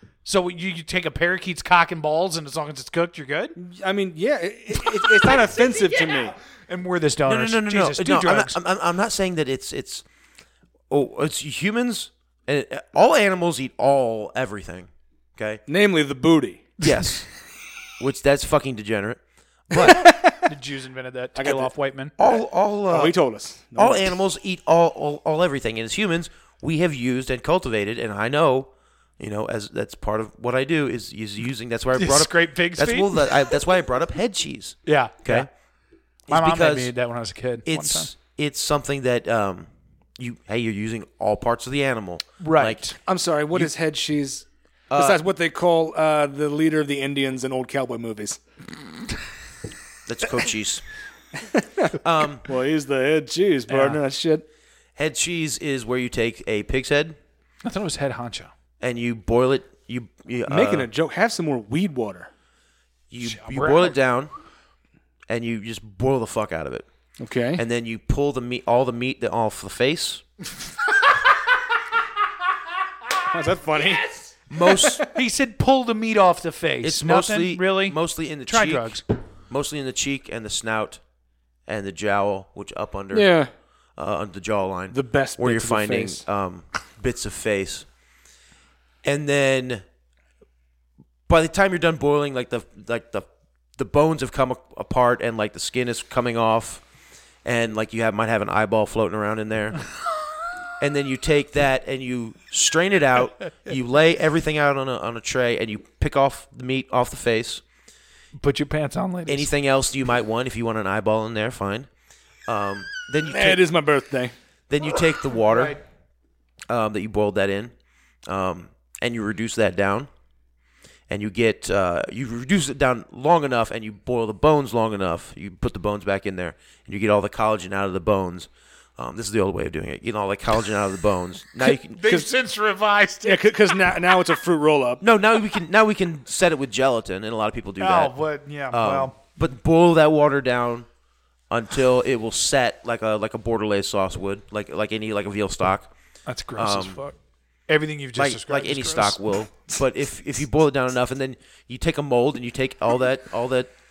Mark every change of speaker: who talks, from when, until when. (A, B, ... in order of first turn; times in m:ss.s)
0:00.2-0:03.6 A
0:03.6-0:06.3 B
0:05.2-0:08.6 A
0:07.3-0:10.0 C
0:10.9-0:15.6 C
0:15.7-0:16.7 B
0:16.8-0:17.3 C
0:18.0-0:20.1 C
0:19.8-0:20.4 B
0:20.4-0:22.1 A
0:21.4-0:21.7 B
0:22.2-0:23.2 C
0:22.9-0:24.1 B
0:23.8-0:35.5 C
0:31.9-0:33.3 A
0:34.8-0:35.5 A
0:36.3-0:36.9 C
0:36.3-0:38.1 A
0:37.7-0:42.9 C
0:42.4-0:42.9 A
0:43.0-0:48.4 B
0:44.9-0:45.2 C
0:50.1-0:50.8 C
0:51.4-0:54.4 B
0:52.0-0:52.5 C
0:53.7-0:54.0 A
0:55.0-0:57.2 C
0:57.6-0:58.5 A
0:58.8-1:00.9 C
1:00.5-1:02.3 B
1:03.1-1:04.3 C
1:03.2-1:04.0 A
1:05.3-1:06.8 C
1:07.2-1:07.6 B
1:07.6-1:10.2 C
1:13.3-1:15.0 B
1:14.5-1:15.0 C
1:15.0-1:19.0 A
1:16.8-1:21.0 C
1:21.7-1:23.3 C
1:23.1-1:23.5 B
1:24.0-1:27.8 C
1:24.9-1:26.2 B
1:29.0-1:29.8 C
1:31.3-1:36.8 C
1:37.4-1:39.8 C
1:40.8-1:47.6 C
1:48.4-1:49.5 A
1:49.3-1:51.9 C
1:52.5-1:53.6 C
1:53.2-1:54.3 B
1:54.7-1:55.8 C
1:55.5-1:55.8 A
1:56.7-1:57.7 C
1:58.3-2:00.1 C
2:01.1-2:12.1 C
2:11.6-2:14.0 A
2:12.0-2:12.3 B
2:13.2-2:15.0 B
2:15.0-2:20.9 C
2:17.8-2:19.1 A
2:21.5-2:25.9 C
2:26.3-2:27.1 A
2:26.6-2:27.0 C
2:27.7-2:29.2 A
2:28.2-2:33.7 C